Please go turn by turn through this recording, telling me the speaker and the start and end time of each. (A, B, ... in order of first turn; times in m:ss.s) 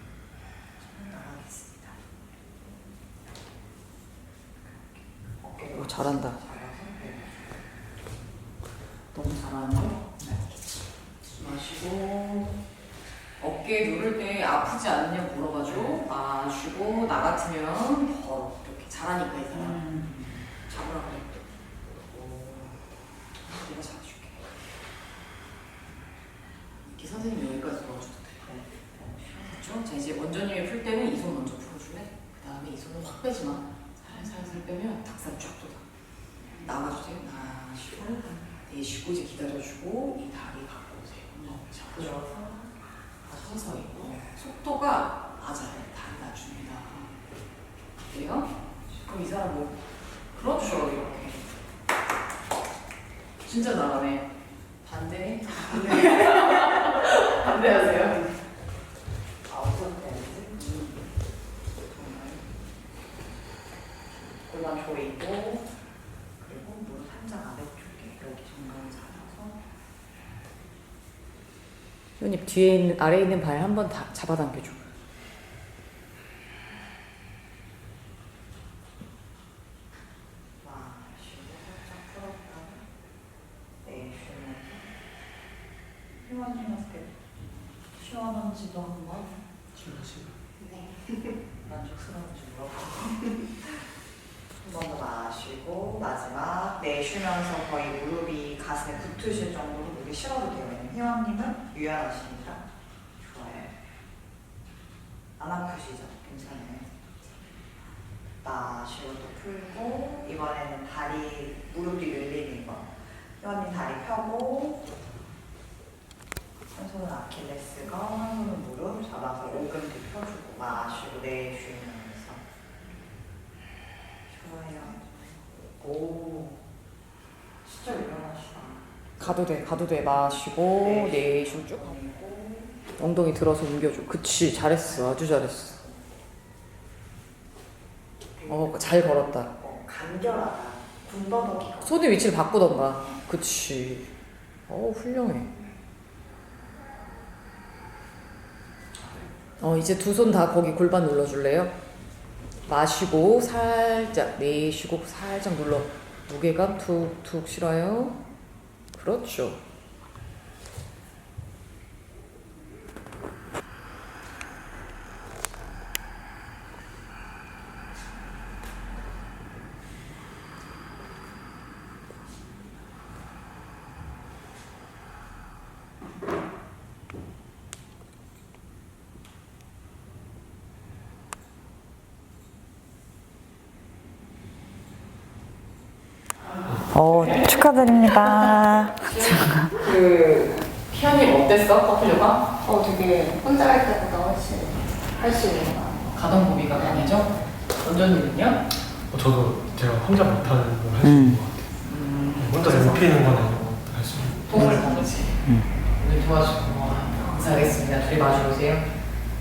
0:00.9-0:02.0 A
0:04.7-0:07.5 A
0:05.7-0:06.4 B
0:09.1-0:10.2 B
0:11.3-0:12.5 B
0:13.4-0:19.9 B
0:19.5-0:20.4 A
0:20.6-0:21.4 B
0:22.1-0:22.8 B
0:23.5-0:24.5 B
0:26.8-0:28.5 B
0:28.4-0:29.6 A
0:29.5-0:35.8 B
0:36.6-0:42.2 B
0:37.9-0:38.5 A
0:41.9-0:42.8 A
0:43.2-0:47.1 B
0:48.1-0:49.8 B
0:50.3-0:51.4 B
0:53.4-0:54.3 B
0:54.8-0:58.3 B
0:59.5-1:01.0 A
1:01.9-1:02.4 A
1:04.5-1:05.6 B
1:06.4-1:09.6 A
1:12.2-1:14.9 B
1:20.6-1:22.9 A
1:23.8-1:24.9 A
1:26.2-1:27.3 A
1:27.8-1:29.3 A
1:29.8-1:30.3 B
1:30.6-1:31.1 C
1:31.6-1:33.8 A
1:34.6-1:42.6 A
1:43.2-1:43.8 A
1:45.4-1:46.9 A
1:48.4-1:54.8 A
1:56.7-2:02.4 A
2:04.3-2:06.6 A
2:07.6-2:08.8 A
2:09.2-2:11.9 B
2:10.8-2:12.8 A
2:13.0-2:15.8 B
2:14.9-2:15.2 A
2:18.4-2:22.0 A
2:18.5-2:19.5 B
2:21.8-2:24.1 B
2:24.7-2:25.6 B
2:29.6-2:31.7 B
2:32.7-2:38.2 B
2:39.0-2:39.6 B
3:06.9-3:09.7 A
3:07.0-3:07.5 B
3:09.0-3:12.5 B
3:12.6-3:16.0 C
3:16.1-3:18.6 B
3:16.8-3:17.1 C
3:19.1-3:24.9 D
3:21.0-3:21.4 A
3:21.8-3:23.5 B
3:24.4-3:28.9 B